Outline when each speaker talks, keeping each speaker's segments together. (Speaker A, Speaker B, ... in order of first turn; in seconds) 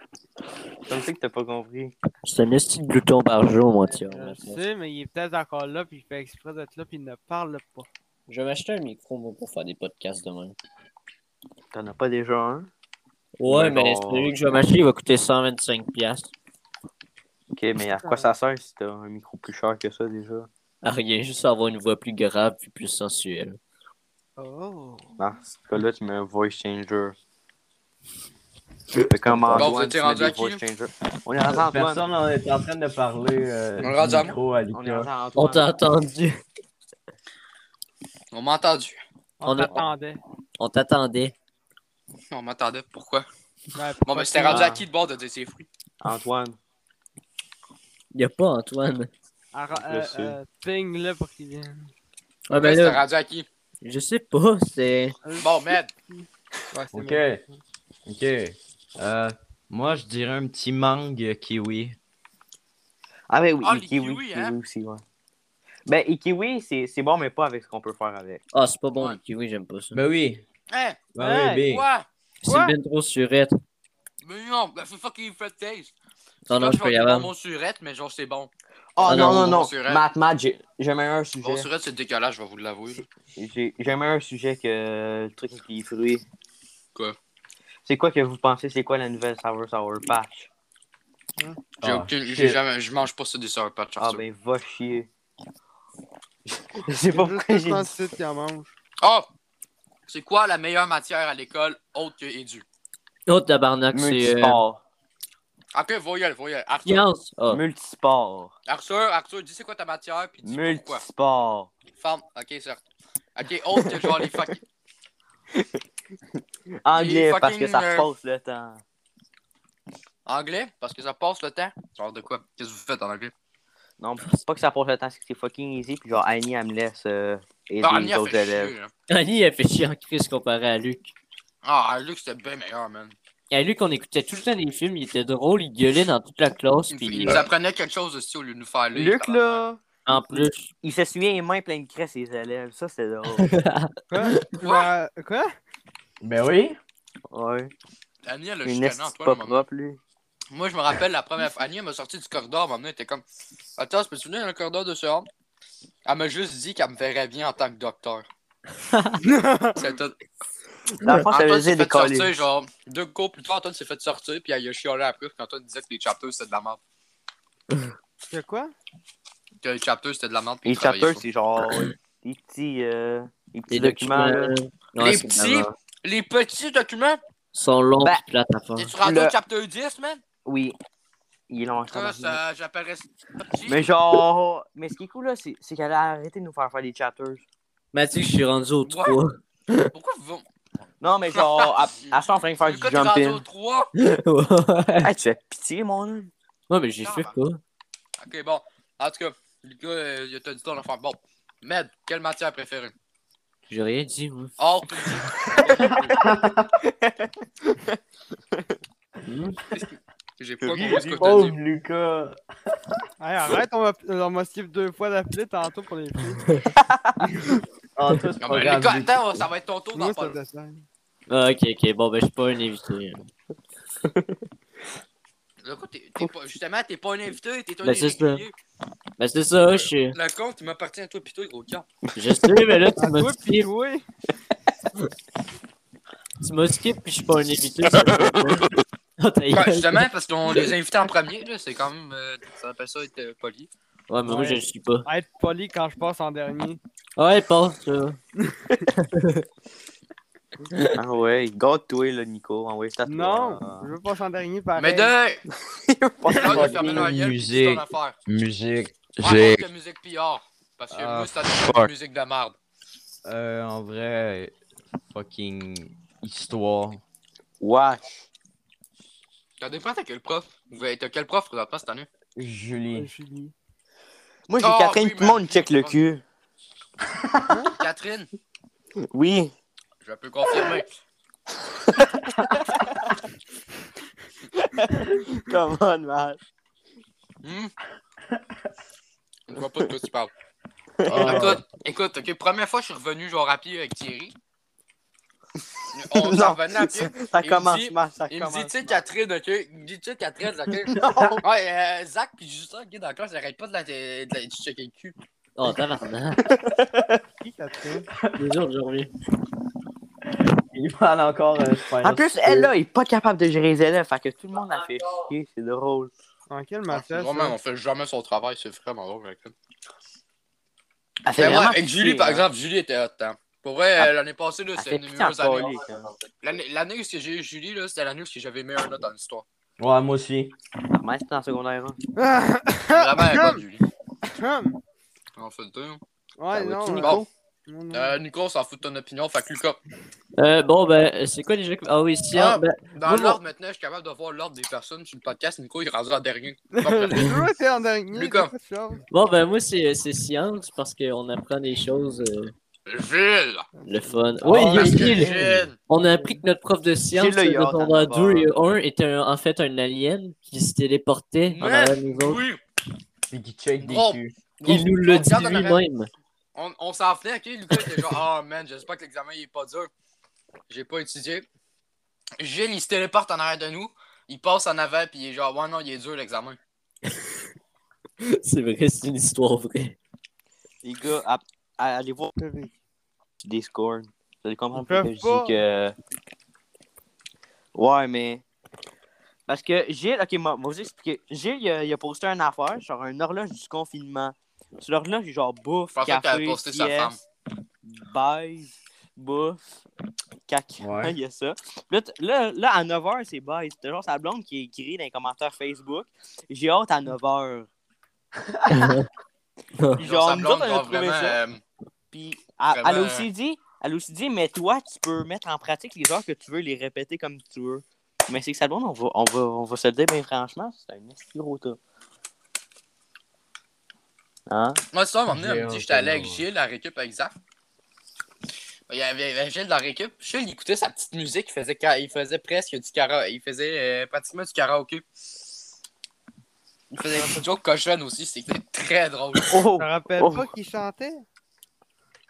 Speaker A: 0.9-1.9, 11.7-12.7, 13.5-14.6, 17.5-20.5, 25.2-27.2, 29.1-32.0, 34.7-35.7, 44.5-44.9, 46.0-46.6, 49.7-50.4, 63.3-65.0, 65.9-68.4, 79.0-81.7, 83.4-86.2, 87.8-90.5, 94.0-95.1, 96.5-97.9, 103.9-104.8, 107.5-108.5, 110.4-111.7, 113.9-114.3, 116.8-118.8, 124.0-128.7, 138.9-143.5, 147.3-147.7, 148.6-150.0, 161.0-162.3, 170.7-174.6, 179.0-179.3, 180.4-180.8, 181.5-182.4, 183.7-187.4, 191.0-193.4, 195.0-196.3, 205.8-206.3, 206.9-208.0, 210.6-211.5, 216.8-217.2, 224.0-224.3, 232.2-232.5, 250.9-253.9, 255.5-257.1, 267.6-268.2, 274.5-276.2, 279.1-279.5, 281.6-283.1, 284.5-286.4, 291.0-291.6, 296.1-299.0, 300.9-301.4, 306.4-307.2, 312.0-316.1, 321.2-322.4, 324.8-326.1, 330.9-332.0, 336.5-337.3, 357.1-358.5, 380.8-382.3, 383.4-385.9, 387.8-388.4, 389.5-397.2, 397.8-399.8, 400.5-407.7, 410.0-411.4, 412.1-421.8, 424.5-424.8, 437.1-437.4, 439.4-440.5
Speaker B: 2.2-4.6, 8.3-10.6, 13.4-16.3, 20.8-23.6, 35.4-36.4, 39.4-39.8, 40.6-41.3, 48.1-49.1, 52.5-53.0, 53.8-55.2, 68.5-70.0, 72.4-73.5, 76.5-77.3, 79.0-79.6, 103.3-104.6, 106.9-107.6, 129.1-131.1, 133.5-137.5, 140.1-140.7, 143.4-144.5, 158.9-159.2, 173.7-175.7, 177.5-178.9, 187.9-189.9, 194.0-195.1, 196.7-197.6, 203.7-204.6, 209.3-209.6, 221.3-223.3, 227.8-228.4, 229.2-230.2, 232.2-233.7, 236.4-240.1, 244.1-245.1, 247.2-248.2, 248.9-249.4, 305.6-306.4, 308.3-309.1, 340.4-343.4, 349.1-352.5, 353.9-362.4, 364.6-366.1, 377.1-377.3, 378.2-380.0, 408.7-409.1
Speaker C: 4.0-7.9, 18.0-18.3, 24.4-25.2, 39.4-40.2, 43.8-44.7, 49.5-51.9, 55.2-55.5, 56.1-57.6, 71.2-71.6, 72.5-72.7, 97.1-98.7, 144.1-145.5, 159.2-159.8, 168.3-168.7, 213.2-216.6, 219.9-220.9, 233.0-234.0, 244.3-246.8, 253.1-255.1, 272.9-273.5, 277.5-277.7, 307.4-308.1, 316.5-317.6, 332.2-333.6, 334.2-334.8, 336.4-338.1, 346.7-349.0, 353.8-354.5, 382.4-382.8, 384.7-385.6, 439.8-441.2
Speaker D: 29.2-29.7, 31.4-35.1, 56.9-57.4, 58.1-62.0, 69.9-70.4, 71.2-71.8, 91.8-92.6, 146.2-146.8, 206.1-206.8, 211.1-212.4, 218.0-219.5, 256.2-259.7, 260.9-261.9, 263.2-264.5, 265.1-267.0, 272.4-273.1, 277.1-277.6, 291.1-291.6, 301.0-301.4, 308.1-308.4, 310.7-312.7, 329.8-330.6, 354.4-355.7, 363.3-364.4, 400.8-401.2, 408.6-408.9, 425.3-426.4
Speaker E: 29.6-30.6, 33.8-34.4, 38.3-39.0, 42.3-43.3, 44.1-45.7, 52.5-53.5, 55.4-55.9, 63.6-64.6, 70.7-71.0, 71.7-72.1, 74.2-75.9, 76.5-78.5, 79.0-80.0, 81.4-83.0, 91.8-94.2, 99.0-99.3, 100.1-102.7, 105.7-107.1, 108.7-111.0, 112.0-112.8, 113.4-114.6, 116.9-118.1, 120.3-123.3, 127.8-128.9, 131.6-133.2, 136.9-139.6, 144.6-144.9, 148.2-149.7, 150.5-153.2, 153.8-155.3, 156.1-158.3, 159.8-160.2, 161.3-166.8, 169.6-171.2, 175.0-177.2, 178.8-180.2, 181.9-183.9, 188.8-189.2, 189.9-190.4, 191.3-193.9, 197.0-197.4, 198.2-202.9, 204.6-206.2, 209.7-211.6, 218.4-220.4, 225.6-228.5, 229.7-231.9, 239.5-243.7, 254.8-255.4, 256.3-258.2, 259.2-262.6, 269.6-272.1, 274.6-276.0, 277.8-278.3, 280.0-280.9, 287.4-287.7, 289.5-290.3, 291.1-294.4, 295.9-305.1, 316.9-319.5, 321.4-325.8, 326.4-329.4, 332.9-333.9, 335.4-336.0, 337.0-337.3, 337.9-339.8, 342.3-347.4, 348.1-348.5, 352.9-353.7, 354.6-355.8, 361.5-362.6, 363.8-365.8, 366.6-369.9, 370.7-371.5, 372.4-376.6, 395.9-397.2, 410.0-411.6, 412.7-413.3, 424.9-427.4, 428.9-435.0, 436.9-439.6